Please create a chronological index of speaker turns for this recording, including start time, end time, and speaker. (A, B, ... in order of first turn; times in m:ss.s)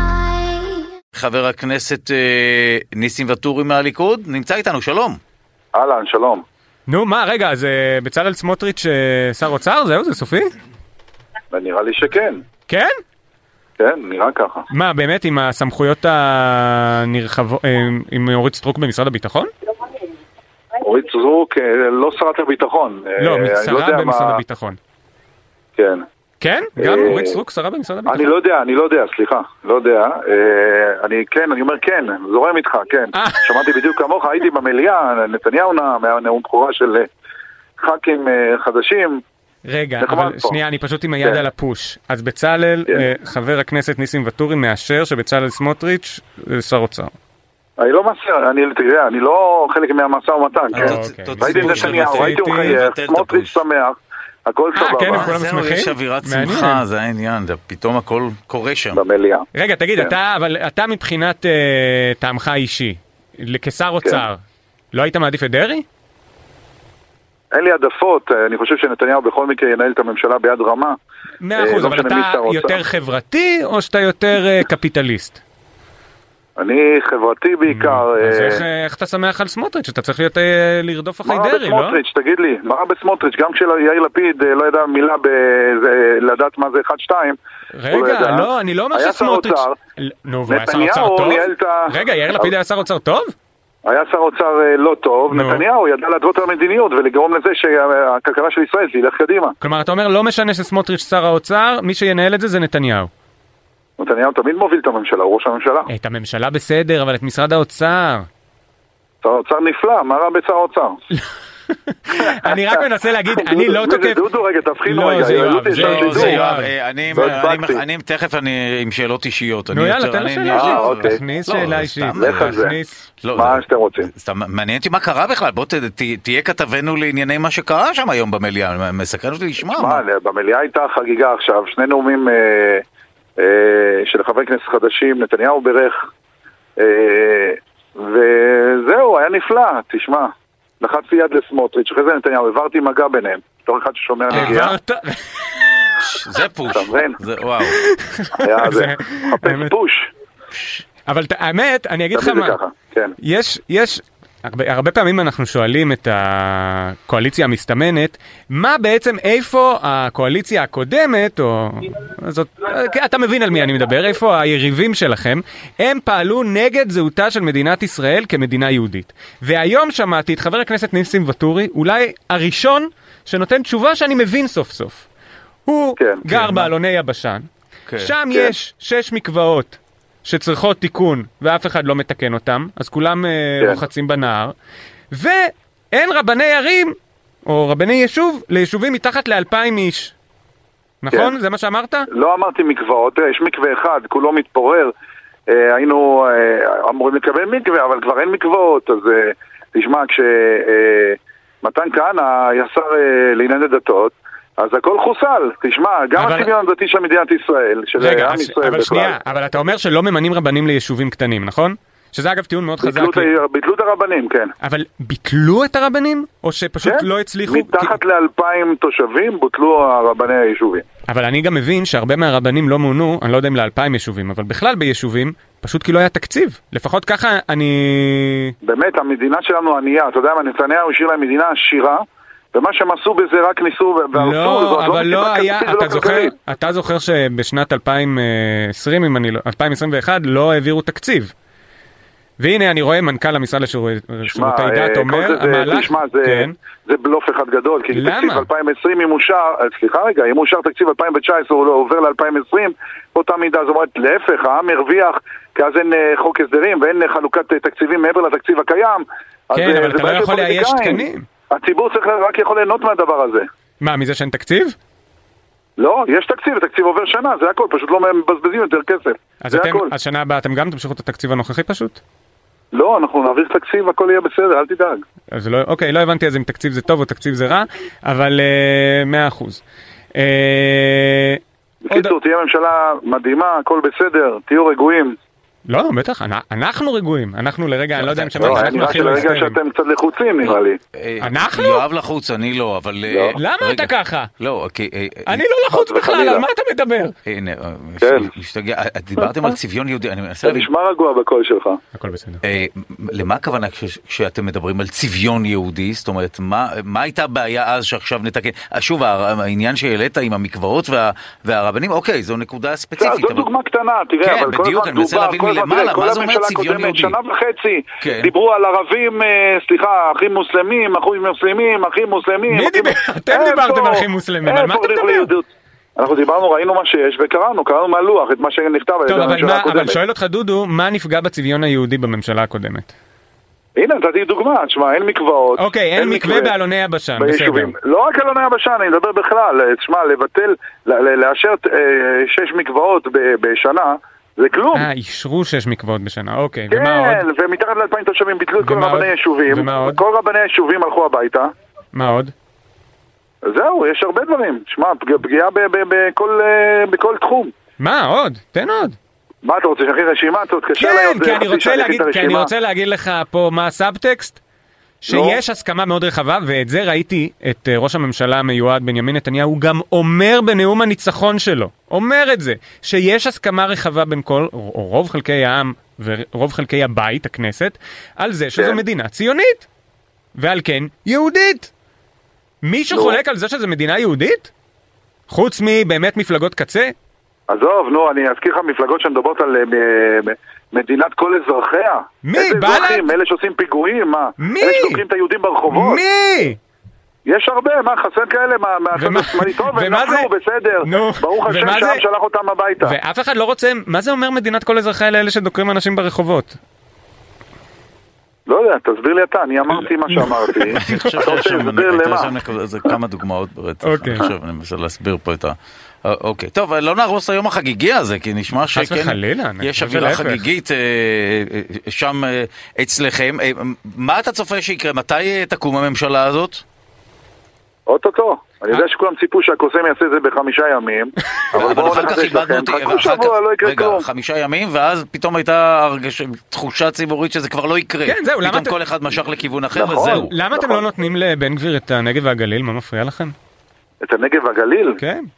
0:01.1-0:05.2 A
0:05.7-0:06.4 B
0:06.9-0:10.5 C
0:11.5-0:12.4 B
0:13.8-0:14.7 B
0:14.7-0:19.5 C
0:20.8-0:24.4 B
0:23.2-0:24.8 C
0:25.8-0:26.0 B
0:26.4-0:28.3 C
0:26.8-0:27.4 B
0:28.1-0:37.1 B
0:33.1-0:33.7 C
0:37.8-0:39.2 B
0:39.6-0:47.1 C
0:40.0-0:40.6 B
0:47.8-0:55.3 B
0:50.7-0:53.6 A
0:50.8-0:52.8 C
0:54.8-0:56.8 C
0:55.1-0:59.0 A
0:58.9-0:59.5 B
0:59.5-1:04.4 C
1:04.9-1:05.8 C
1:07.5-1:11.0 B
1:11.4-1:15.4 C
1:11.6-1:12.8 B
1:16.6-1:18.6 B
1:17.7-1:22.0 C
1:21.2-1:27.4 B
1:27.7-1:33.3 C
1:27.9-1:29.8 B
1:30.5-1:32.5 B
1:33.8-1:39.6 B
1:35.3-1:35.6 C
1:39.6-1:43.1 C
1:44.0-1:45.9 B
1:45.9-1:48.2 C
1:49.2-1:51.0 B
1:51.7-1:54.2 C
1:53.4-1:56.4 B
1:54.8-1:57.3 C
1:55.7-2:02.6 A
1:57.1-1:57.8 B
1:59.7-2:03.0 C
2:00.5-2:01.2 B
2:02.2-2:02.8 B
2:03.2-2:10.0 A
2:03.3-2:04.1 B
2:09.7-2:12.8 B
2:13.4-2:16.1 B
2:16.8-2:24.8 B
2:24.3-2:26.0 C
2:26.0-2:27.8 A
2:26.7-2:27.2 B
2:27.6-2:29.7 C
2:28.4-2:30.1 B
2:31.0-2:32.6 C
2:32.2-2:33.2 B
2:33.2-2:55.0 C
2:55.6-2:57.5 C
2:56.0-2:56.2 B
2:56.3-2:56.7 A
2:57.9-2:58.1 A
2:58.0-3:04.5 C
3:05.1-3:10.1 C
3:11.0-3:12.1 C
3:12.1-3:14.9 B
3:15.5-3:29.1 B
3:26.2-3:26.5 C
3:28.0-3:33.3 C
3:32.8-3:34.5 B
3:34.6-3:38.0 C
3:36.8-3:40.8 B
3:41.1-3:48.5 C
3:48.6-3:56.3 B
3:54.1-4:01.3 C
4:02.4-4:06.5 C
4:04.3-4:23.5 B
4:07.9-4:08.5 C
4:19.5-4:21.3 C
4:23.8-4:24.8 C
4:25.8-4:29.9 B
4:29.4-4:32.0 C
4:32.7-4:35.0 B
4:35.3-4:39.6 C
4:40.1-4:41.4 C
4:41.9-4:45.2 B
4:45.7-4:49.6 C
4:48.0-4:49.3 A
4:48.4-4:50.8 B
4:50.9-4:55.4 A
4:51.2-4:51.8 C
4:53.1-4:53.4 B
4:53.4-4:54.3 C
4:55.3-4:57.2 C
4:55.7-4:56.4 B
4:57.2-5:00.7 A
4:58.0-4:58.3 B
4:59.2-4:59.5 C
5:00.4-5:01.8 B
5:01.9-5:02.4 C
5:02.4-5:13.5 A
5:13.0-5:30.0 B
5:14.2-5:17.2 A
5:18.0-5:18.3 A
5:22.5-5:25.3 C
5:29.1-5:32.9 C
5:33.8-5:36.5 B
5:35.6-5:37.7 C
5:37.2-5:44.8 B
5:44.7-5:47.2 C
5:46.7-5:51.5 B
5:48.6-5:50.0 C
5:51.9-5:52.3 C
5:53.4-5:57.5 B
5:57.8-5:59.0 C
5:59.4-6:02.5 B
6:00.8-6:04.4 C
6:05.0-6:19.6 C
6:05.1-6:05.4 B
6:20.4-6:21.7 C
6:22.6-6:24.5 C
6:22.9-6:23.2 B
6:25.3-6:26.9 C
6:27.5-6:36.0 B
6:32.2-6:33.1 C
6:34.4-6:35.0 C
6:35.7-6:36.6 C
6:37.2-6:42.9 B
6:39.0-6:40.3 C
6:40.8-6:42.0 C
6:42.8-6:46.6 C
6:48.5-6:52.3 B
6:49.8-6:51.2 C
6:50.8-7:06.6 A
6:53.8-6:54.3 C
6:58.7-7:00.4 C
7:07.9-7:14.0 B
7:11.5-7:20.4 A
7:18.0-7:18.8 C
7:19.7-7:20.8 B
7:20.0-7:23.3 C
7:24.0-7:25.0 B
7:25.0-7:25.2 C